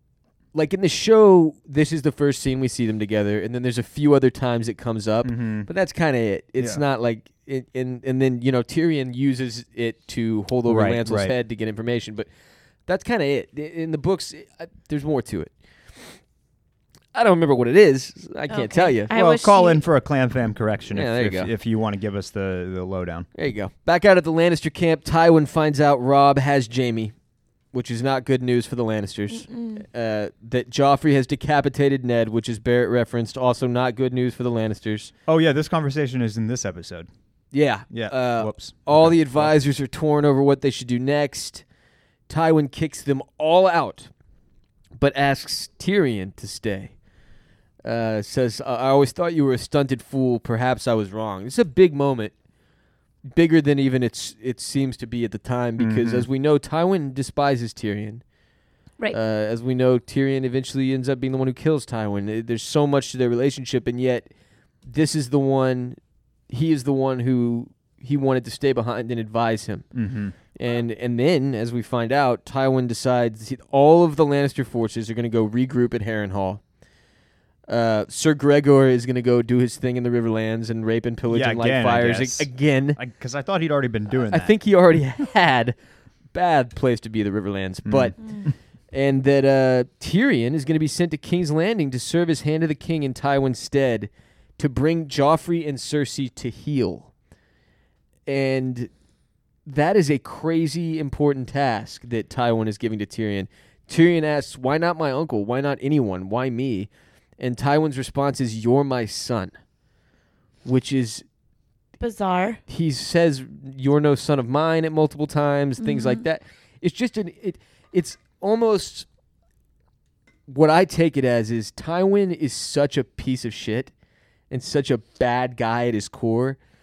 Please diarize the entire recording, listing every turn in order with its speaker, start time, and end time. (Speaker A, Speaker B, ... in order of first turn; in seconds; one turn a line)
Speaker A: 0.5-12.3
Speaker B: 5.2-5.7
Speaker B: 6.6-6.8
Speaker B: 10.7-11.3
Speaker A: 12.8-15.5
Speaker A: 17.1-19.1
Speaker C: 18.5-19.8
Speaker B: 19.1-23.3
Speaker A: 20.9-21.5
Speaker A: 23.3-27.1
Speaker A: 27.7-35.1
Speaker C: 29.3-29.8
Speaker B: 35.3-37.1
Speaker A: 37.5-41.6
Speaker B: 37.9-39.5
Speaker A: 42.3-44.1
Speaker A: 45.0-46.9
Speaker A: 47.8-52.3
Speaker A: 53.3-58.2
Speaker B: 55.8-56.3
Speaker A: 59.1-64.3
Speaker A: 64.9-66.0
Speaker A: 66.5-69.9
Speaker B: 69.9-70.3
Speaker A: 70.5-76.6
Speaker A: 77.7-83.0
Speaker B: 81.3-84.5
Speaker A: 84.2-85.8
Speaker A: 86.3-88.3
Speaker B: 87.8-88.5
Speaker C: 88.2-88.5
Speaker A: 88.9-97.1
Speaker A: 98.2-98.9
Speaker A: 99.6-109.5
Speaker A: 110.6-111.2
Speaker C: 112.0-112.6
Speaker A: 112.7-119.1
Speaker C: 115.8-116.2
Speaker A: 120.5-123.9
Speaker A: 124.5-126.6